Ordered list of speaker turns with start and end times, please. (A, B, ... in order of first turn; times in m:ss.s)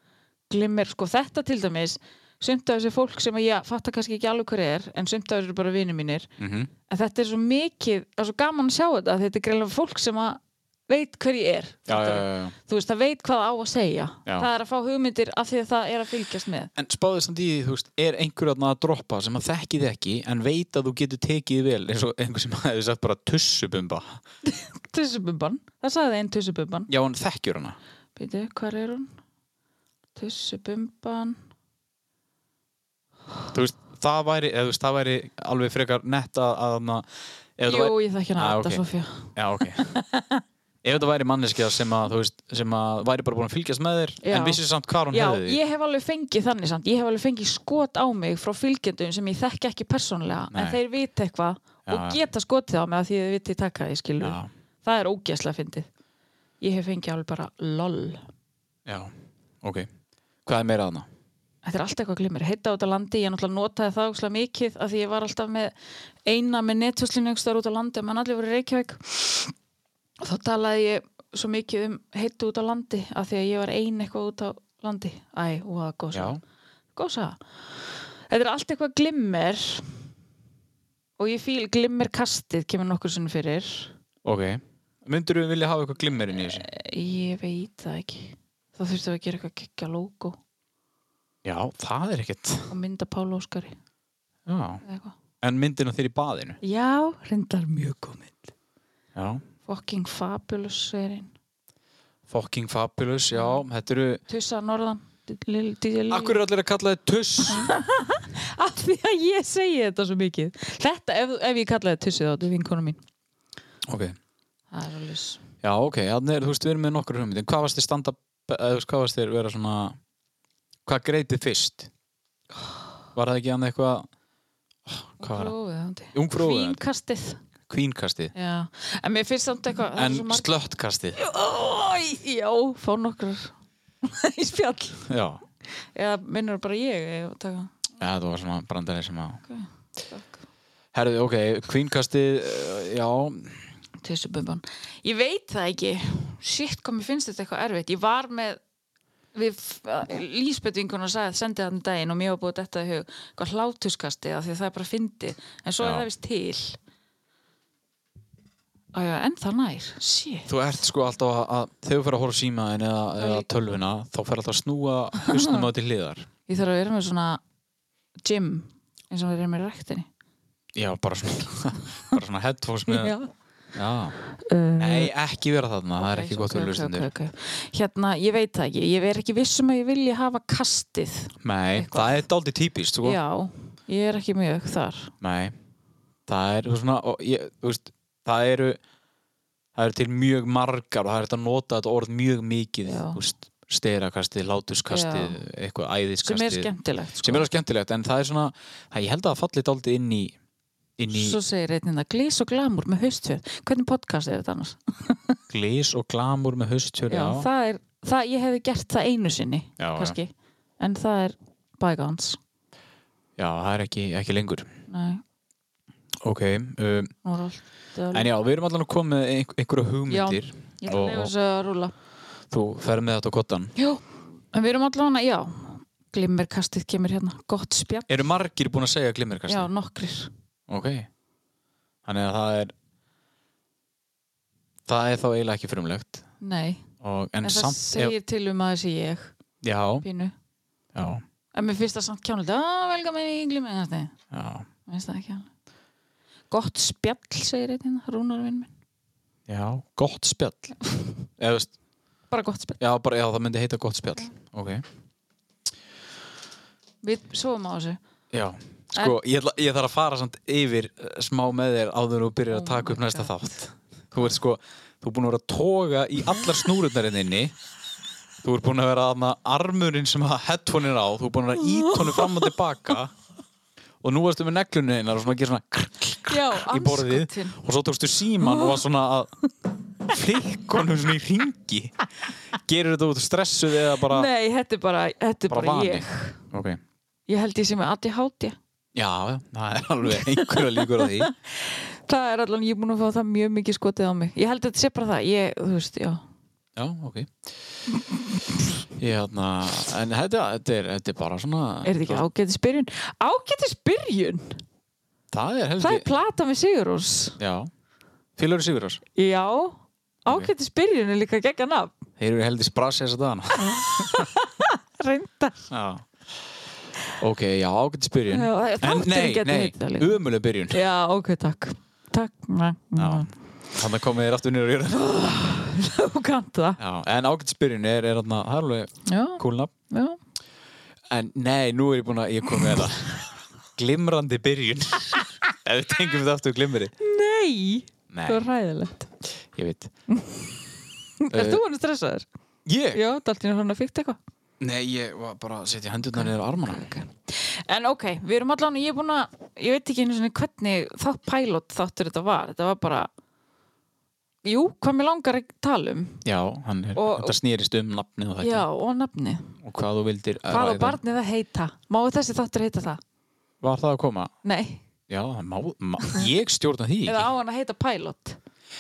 0:00.5-0:06.3 A
0:06.4-0:06.7 B
0:06.9-0:16.7 A
0:11.9-0:12.6 B
0:16.8-0:24.2 B
0:24.4-0:26.9 A
0:26.9-0:27.8 B
0:28.2-0:29.2 A
0:30.2-0:31.4 A
0:33.5-0:37.1 B
0:37.6-0:38.8 B
0:37.7-0:40.4 A
0:39.4-0:39.9 B
0:40.8-0:45.6 B
0:44.2-0:55.9 A
0:50.5-0:50.8 B
0:51.9-0:52.2 B
0:54.2-0:54.5 B
0:56.6-0:58.3 A
0:58.9-0:59.9 B
1:00.5-1:01.1 B
1:01.6-1:05.7 A
1:06.2-1:09.5 A
1:10.2-1:16.4 A
1:16.1-1:16.4 B
1:17.0-1:17.4 A
1:18.3-1:20.0 A
1:21.2-1:23.9 A
1:24.2-1:26.7 B
1:26.5-1:30.4 A
1:31.4-1:32.7 B
1:32.7-1:33.8 A
1:34.5-1:34.8 B
1:34.8-1:35.2 A
1:35.4-1:36.6 B
1:36.6-1:38.5 A
1:39.2-1:39.4 B
1:39.7-1:41.3 A
1:42.3-1:44.2 B
1:43.4-1:43.6 A
1:44.3-1:46.4 A
1:46.1-1:47.7 B
1:47.5-1:53.0 A
1:53.9-1:54.2 B
1:54.7-1:55.4 A
1:55.6-2:00.0 B
2:00.9-2:01.9 B
2:03.2-2:04.1 B
2:04.9-2:05.5 B
2:05.2-2:07.4 A
2:06.1-2:06.8 B
2:07.7-2:08.3 B
2:08.4-2:10.5 A
2:10.0-2:11.2 B
2:11.2-2:15.1 A
2:15.1-2:15.4 B
2:15.9-2:17.9 A
2:18.0-2:19.4 B
2:19.5-2:20.4 A
2:20.9-2:23.7 B
2:24.0-2:28.6 A
2:29.3-2:36.8 A
2:35.8-2:36.1 B
2:38.9-2:40.5 A
2:40.5-2:46.3 B
2:43.2-2:43.5 A
2:45.2-2:45.6 A
2:46.5-2:47.4 A
2:48.2-2:50.1 A
2:50.8-2:53.2 B
2:52.9-2:53.3 A
2:53.8-2:54.2 B
2:54.4-2:55.1 A
2:54.8-2:57.1 B
2:56.0-3:02.2 A
3:01.4-3:03.2 B
3:03.0-3:05.1 A
3:05.2-3:05.6 B
3:06.3-3:08.8 B
3:09.8-3:16.7 B
3:12.8-3:13.2 A
3:14.9-3:15.4 A
3:16.2-3:17.5 A
3:17.2-3:20.4 B
3:21.0-3:21.4 B
3:21.1-3:25.4 A
3:25.5-3:27.5 B
3:27.1-3:32.4 A
3:29.8-3:30.2 B
3:33.4-3:34.7 B
3:34.9-3:35.2 A
3:36.2-3:37.1 B
3:37.2-3:38.3 A
3:38.1-3:41.3 B
3:40.1-3:41.9 A
3:42.5-3:43.7 B
3:43.8-3:48.2 A
3:48.1-3:49.7 B
3:49.5-3:50.3 A
3:50.7-3:51.1 B
3:52.0-3:52.7 B
3:54.9-3:56.2 B
3:56.4-3:56.9 A
3:57.0-3:58.2 B
3:57.4-3:59.3 A
3:59.6-4:00.0 B
4:00.0-4:00.3 A
4:00.9-4:01.2 B
4:01.5-4:04.2 A
4:04.3-4:04.7 B
4:04.9-4:05.5 A
4:06.5-4:08.7 A
4:09.5-4:10.8 B
4:11.4-4:11.7 B
4:12.3-4:12.8 A
4:12.8-4:14.8 B
4:17.0-4:18.0 A
4:18.3-4:27.5 B
4:22.5-4:23.3 A
4:28.4-4:33.1 B
4:31.6-4:32.5 A
4:34.0-4:39.3 B
4:36.3-4:37.6 A
4:38.4-4:38.8 A
4:40.0-4:42.0 B
4:42.5-4:44.3 B
4:44.0-4:46.4 A
4:45.5-4:46.8 B
4:47.3-4:48.6 A
4:49.0-4:51.3 B
4:50.1-4:56.2 A
4:56.8-4:57.5 B
4:59.0-5:02.3 B
5:01.8-5:04.6 A
5:05.3-5:06.1 B
5:05.8-5:07.4 A
5:07.4-5:07.7 B
5:08.4-5:09.0 B
5:09.2-5:11.9 A
5:12.2-5:14.3 B
5:13.6-5:15.7 A
5:15.7-5:16.1 B
5:17.2-5:20.8 B
5:18.3-5:20.2 A
5:20.7-5:23.3 A
5:23.0-5:25.2 B
5:24.9-5:26.8 A
5:26.8-5:29.7 B
5:29.1-5:30.2 A
5:31.1-5:36.9 B
5:37.0-5:39.1 A
5:38.1-5:38.4 B
5:39.4-5:39.9 B
5:40.1-5:40.7 A
5:41.2-5:42.3 A
5:41.3-5:41.6 B
5:42.7-5:43.0 B
5:42.9-5:44.2 A
5:44.6-5:46.9 B
5:46.1-5:53.1 A
5:54.4-5:56.2 A
5:56.2-5:58.6 B
5:57.0-5:57.4 A
5:58.4-5:59.6 A
5:59.6-6:01.0 B
6:00.5-6:03.0 A
6:03.6-6:04.3 B
6:04.4-6:04.8 A
6:05.1-6:07.3 B
6:06.0-6:06.3 A
6:07.0-6:08.4 A